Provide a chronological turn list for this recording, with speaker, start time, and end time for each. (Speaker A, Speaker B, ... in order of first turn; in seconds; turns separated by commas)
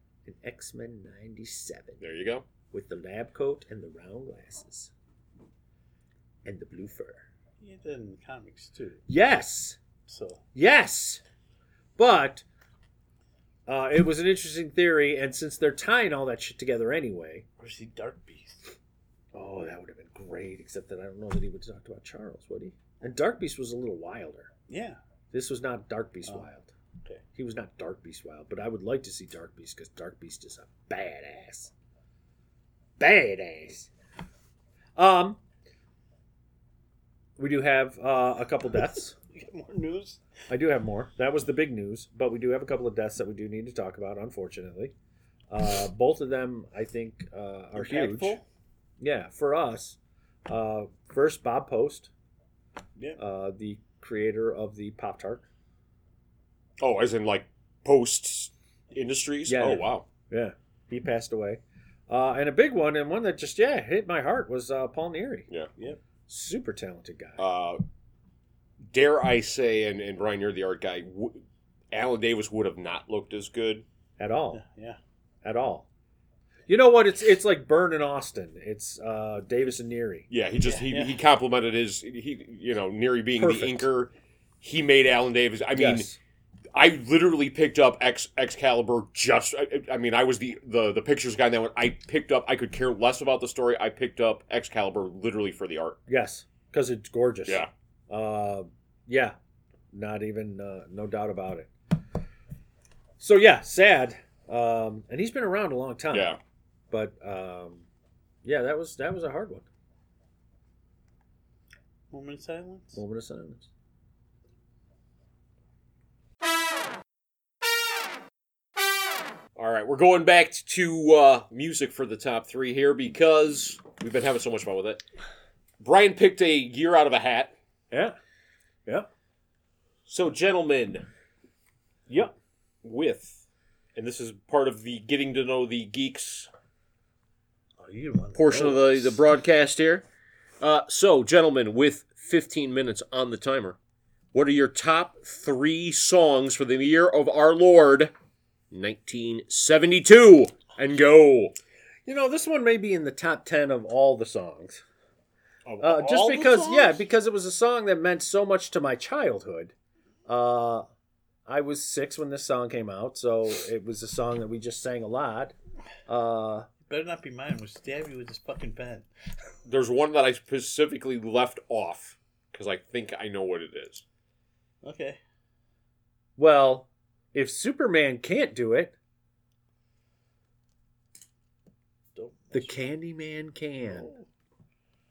Speaker A: 0.2-2.0, Speaker B: 2.0-2.5, Speaker A: 2.7-4.9, Speaker A: 6.5-7.2, Speaker C: 7.6-9.0, Speaker A: 9.1-9.8, Speaker C: 10.1-10.4, Speaker A: 10.6-11.2, Speaker A: 12.0-12.4, Speaker A: 13.7-17.4, Speaker C: 17.6-18.6, Speaker A: 19.3-24.5, Speaker C: 24.7-25.0, Speaker A: 25.3-26.7, Speaker A: 27.4-31.7, Speaker A: 33.0-33.9, Speaker A: 35.0-35.4, Speaker A: 37.4-39.1, Speaker C: 39.3-40.2, Speaker A: 40.5-44.9, Speaker A: 45.5-48.4, Speaker C: 47.8-48.5, Speaker A: 49.0-52.1, Speaker A: 53.2-55.5, Speaker B: 56.8-60.1, Speaker A: 59.5-65.5, Speaker A: 66.3-67.4, Speaker B: 67.4-67.8, Speaker B: 68.9-73.8, Speaker A: 74.2-74.6, Speaker C: 74.5-75.0, Speaker A: 75.4-75.9, Speaker A: 76.7-80.3, Speaker B: 80.3-84.1, Speaker C: 80.6-81.2, Speaker A: 83.4-83.9, Speaker B: 84.6-86.1, Speaker A: 85.8-86.2, Speaker B: 86.7-96.0, Speaker A: 96.1-99.3, Speaker A: 99.9-101.7, Speaker A: 103.2-106.3, Speaker B: 106.1-106.4, Speaker A: 106.9-107.8, Speaker A: 108.4-109.7, Speaker C: 112.1-113.0, Speaker A: 113.0-113.7, Speaker B: 119.6-125.0, Speaker B: 125.8-127.5, Speaker A: 127.9-128.2, Speaker B: 130.1-131.1, Speaker A: 132.1-132.3, Speaker B: 132.8-133.4, Speaker B: 133.9-136.5, Speaker C: 137.8-139.1, Speaker B: 138.4-140.1, Speaker B: 140.6-143.8, Speaker B: 144.3-148.1, Speaker B: 148.7-151.5, Speaker A: 152.1-154.8, Speaker B: 155.7-157.0, Speaker A: 155.8-159.7, Speaker A: 160.3-160.8, Speaker A: 161.5-165.6, Speaker A: 166.1-166.7, Speaker C: 166.9-169.1, Speaker B: 169.7-174.0, Speaker C: 174.8-175.2, Speaker A: 176.4-178.9, Speaker C: 182.2-182.9, Speaker A: 182.5-184.1, Speaker C: 183.9-184.3